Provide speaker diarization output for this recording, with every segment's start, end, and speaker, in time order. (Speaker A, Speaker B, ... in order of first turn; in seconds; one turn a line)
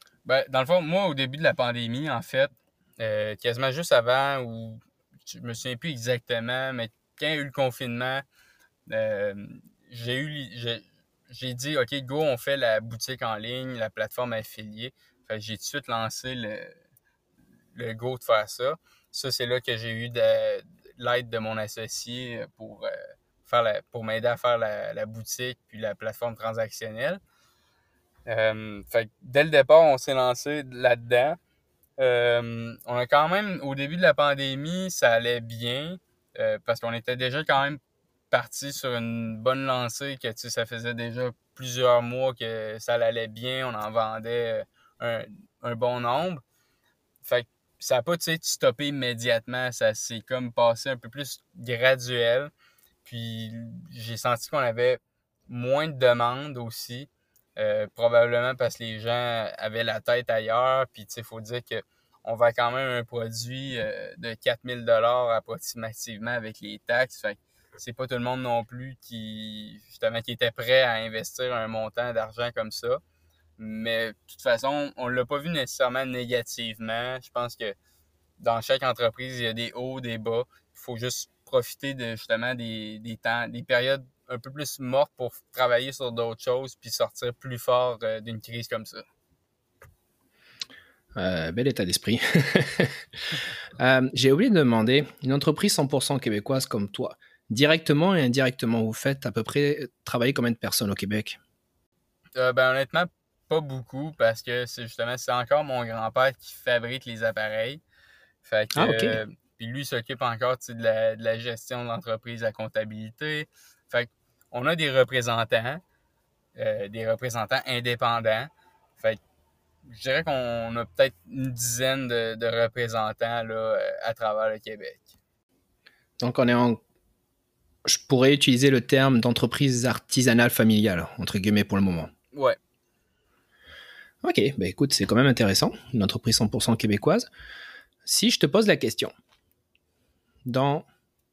Speaker A: 0.2-8.2
Speaker A: 8.9-16.8
Speaker A: 17.7-22.9
Speaker A: 23.4-27.2
Speaker A: 28.3-31.4
Speaker A: 32.0-37.8
Speaker A: 38.3-46.4
Speaker A: 47.2-52.5
Speaker A: 53.0-73.0
Speaker A: 73.6-77.7
Speaker A: 78.4-89.0
Speaker B: 91.2-93.0
Speaker B: 93.8-101.4
Speaker A: 102.3-107.8
Speaker A: 108.4-115.8
Speaker B: 108.8-109.2
Speaker A: 116.5-119.2
Speaker A: 119.8-125.1
Speaker B: 126.2-126.8
Speaker B: 127.8-132.1
Speaker B: 134.2-137.3
Speaker B: 138.0-139.1
Speaker B: 140.4-140.8